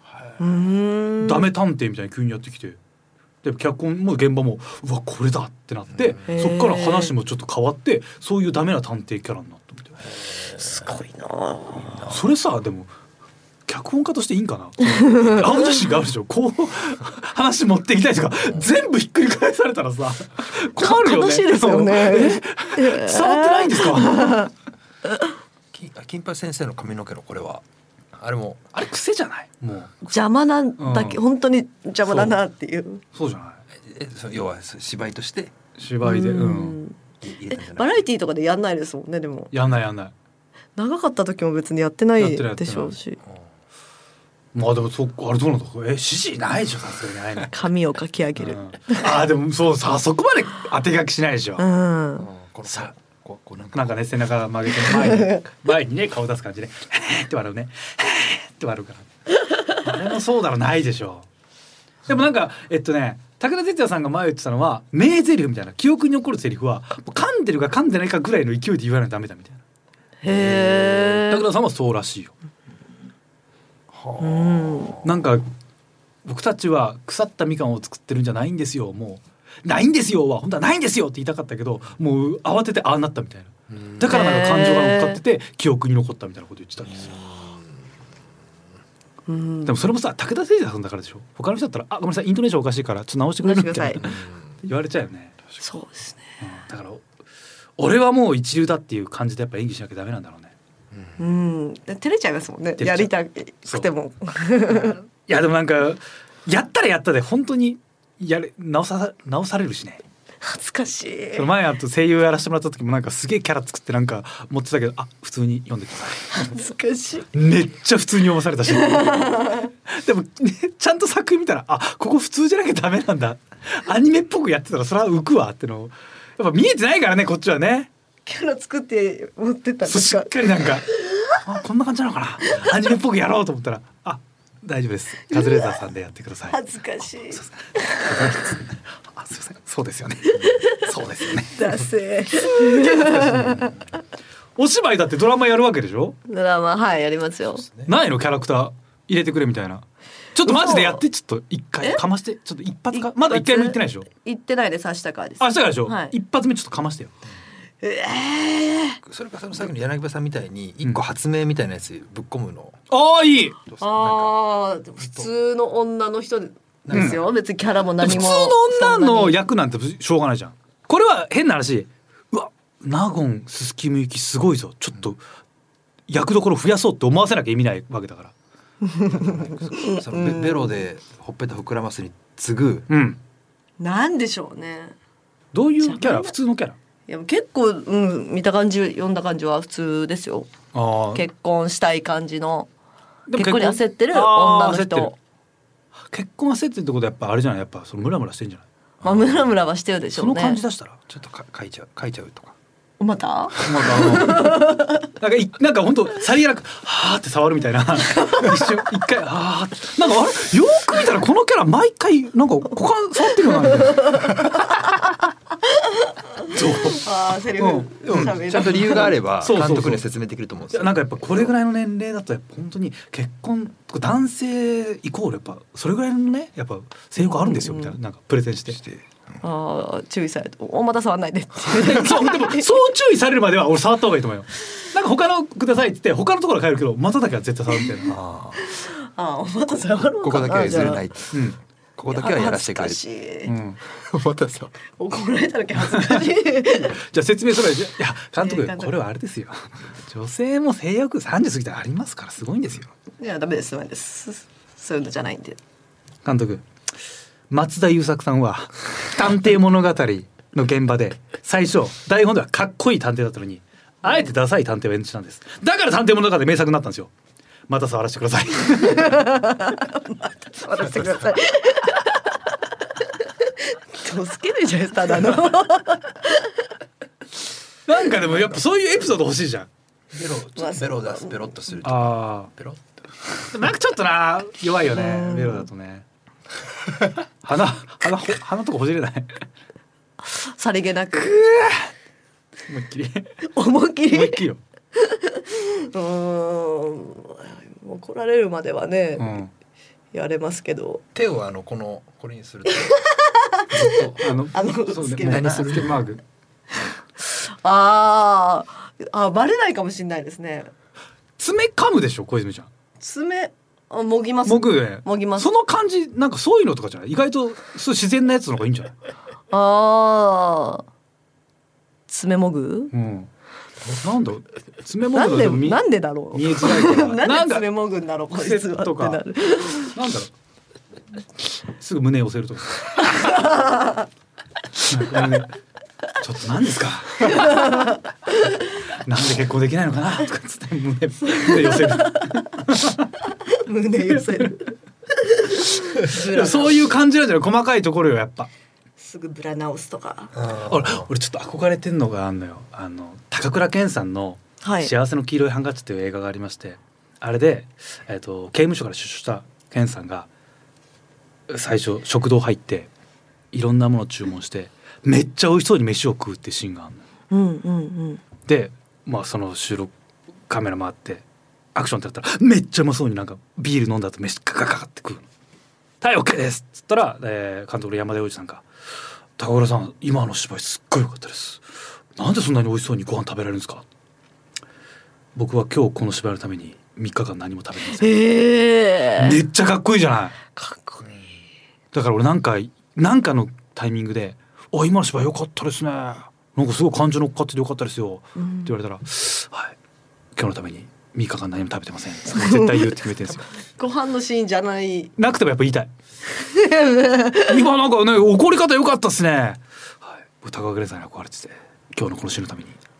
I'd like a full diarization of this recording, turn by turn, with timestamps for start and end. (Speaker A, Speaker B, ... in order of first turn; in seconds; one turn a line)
Speaker A: 0.4-1.5
Speaker B: 1.2-2.8
Speaker B: 3.4-10.0
Speaker A: 6.3-7.1
Speaker C: 10.3-10.6
Speaker A: 10.6-12.1
Speaker B: 12.0-12.9
Speaker B: 13.7-24.5
Speaker A: 15.0-15.5
Speaker A: 20.8-24.5
Speaker C: 25.7-28.6
Speaker B: 28.7-30.1
Speaker A: 30.1-33.0
Speaker B: 30.8-31.2
Speaker B: 32.1-32.4
Speaker B: 33.1-33.6
Speaker C: 33.8-35.5
Speaker B: 35.8-36.8
Speaker A: 36.0-39.5
Speaker C: 37.2-38.1
Speaker B: 39.5-40.1
Speaker A: 40.8-43.2
Speaker B: 42.2-43.0
Speaker B: 44.5-47.6
Speaker A: 47.5-49.0
Speaker B: 48.4-51.6
Speaker A: 51.6-52.3
Speaker C: 52.2-54.0
Speaker B: 53.7-59.1
Speaker A: 55.0-55.4
Speaker B: 59.7-61.2
Speaker B: 62.1-69.6
Speaker A: 70.2-71.5
Speaker C: 70.2-71.2
Speaker B: 71.3-72.3
Speaker C: 73.9-75.2
Speaker A: 74.2-75.0
Speaker B: 75.0-75.5
Speaker B: 76.2-87.2
Speaker C: 83.7-84.1
Speaker A: 84.1-85.2
Speaker C: 86.9-87.8
Speaker A: 89.3-89.7
Speaker B: 89.7-95.4
Speaker A: 93.4-94.1
Speaker C: 94.0-94.3
Speaker A: 95.6-96.2
Speaker B: 96.4-97.0
Speaker B: 97.8-100.5
Speaker A: 101.2-105.0
Speaker B: 102.8-103.1
Speaker B: 104.7-110.0
Speaker A: 110.4-111.5
Speaker B: 111.3-116.6
Speaker A: 116.3-117.3
Speaker B: 117.3-127.9
Speaker A: 118.7-119.7
Speaker A: 128.2-131.4
Speaker B: 129.8-136.6
Speaker A: 135.3-135.8
Speaker A: 136.5-138.4
Speaker B: 137.3-141.8
Speaker A: 140.3-140.9
Speaker A: 141.5-143.7
Speaker B: 142.3-143.7
Speaker B: 144.6-146.2
Speaker A: 146.3-147.7
Speaker C: 147.6-147.9
Speaker B: 147.8-149.8
Speaker B: 150.3-154.1
Speaker A: 150.4-151.0
Speaker A: 152.9-156.1
Speaker B: 155.4-157.1
Speaker A: 157.8-159.0
Speaker C: 159.0-162.8
Speaker B: 162.9-163.6
Speaker C: 163.7-164.3
Speaker A: 163.8-169.4
Speaker C: 166.8-167.2
Speaker B: 166.9-167.2
Speaker B: 168.0-175.2
Speaker B: 176.1-178.3
Speaker A: 178.8-180.8
Speaker C: 179.1-182.9
Speaker B: 182.9-183.2
Speaker A: 183.8-184.9
Speaker B: 185.5-186.8
Speaker A: 185.8-186.3
Speaker A: 187.1-190.5
Speaker B: 190.7-191.2
Speaker A: 191.1-192.7
Speaker B: 193.3-195.1
Speaker A: 193.3-195.2
Speaker B: 196.1-198.6
Speaker C: 199.0-199.6
Speaker A: 199.0-200.6
Speaker B: 200.1-201.0
Speaker C: 201.1-202.6
Speaker A: 203.0-205.1
Speaker B: 203.6-214.6
Speaker A: 208.1-208.5
Speaker A: 213.7-214.7
Speaker A: 215.8-219.1
Speaker B: 216.4-220.0
Speaker C: 218.1-221.5
Speaker B: 220.7-228.8
Speaker A: 227.2-227.9
Speaker C: 228.7-229.1
Speaker A: 229.4-232.7
Speaker B: 231.7-238.2
Speaker C: 238.0-238.6
Speaker A: 238.6-241.0
Speaker C: 240.2-243.0
Speaker A: 242.1-243.5
Speaker B: 243.4-243.8
Speaker C: 243.9-244.7
Speaker A: 245.0-247.0
Speaker B: 245.9-252.9
Speaker A: 248.4-248.9
Speaker A: 253.2-255.6
Speaker B: 256.2-256.6
Speaker B: 257.5-267.1
Speaker B: 267.7-269.5
Speaker A: 268.9-272.4
Speaker A: 273.0-276.7
Speaker B: 277.9-279.7
Speaker C: 280.1-283.0
Speaker A: 280.6-281.5
Speaker B: 281.8-282.5
Speaker B: 283.5-286.0
Speaker A: 284.8-285.7
Speaker B: 287.4-289.4
Speaker A: 290.2-291.4
Speaker B: 291.1-291.9
Speaker B: 292.7-293.4
Speaker A: 293.4-294.4
Speaker B: 294.1-294.6
Speaker A: 294.9-299.4
Speaker B: 299.2-299.5
Speaker A: 300.1-301.0
Speaker C: 301.1-302.9
Speaker A: 302.8-305.8
Speaker B: 303.7-306.2
Speaker C: 305.2-305.9
Speaker A: 307.3-310.7
Speaker B: 311.4-312.7
Speaker A: 313.0-315.5
Speaker B: 314.4-318.9
Speaker A: 319.5-320.8
Speaker A: 322.1-322.9
Speaker B: 322.9-323.3
Speaker B: 323.9-327.7
Speaker A: 325.1-329.9
Speaker B: 328.3-329.2
Speaker B: 329.9-330.3
Speaker B: 331.8-333.4
Speaker A: 333.1-334.1
Speaker B: 334.8-335.5
Speaker B: 336.2-337.9
Speaker A: 337.2-337.9
Speaker B: 339.0-343.1
Speaker A: 341.4-342.3
Speaker A: 343.5-346.9
Speaker B: 345.9-348.5
Speaker A: 349.0-350.3
Speaker C: 350.3-351.1
Speaker B: 350.7-360.3
Speaker A: 354.6-354.9
Speaker B: 361.5-362.9
Speaker B: 363.5-367.0
Speaker A: 367.3-368.2
Speaker B: 368.4-369.9
Speaker B: 370.5-371.2
Speaker B: 371.7-375.2
Speaker B: 376.0-378.6
Speaker B: 379.4-381.6
Speaker B: 382.1-383.8
Speaker B: 385.3-388.3
Speaker A: 387.9-389.4
Speaker B: 389.2-390.4
Speaker A: 390.6-391.0
Speaker B: 391.9-399.7
Speaker A: 398.4-398.7
Speaker B: 400.4-403.4
Speaker A: 402.3-402.9
Speaker A: 403.8-405.1
Speaker B: 405.2-405.9
Speaker A: 406.3-407.6
Speaker B: 407.4-412.8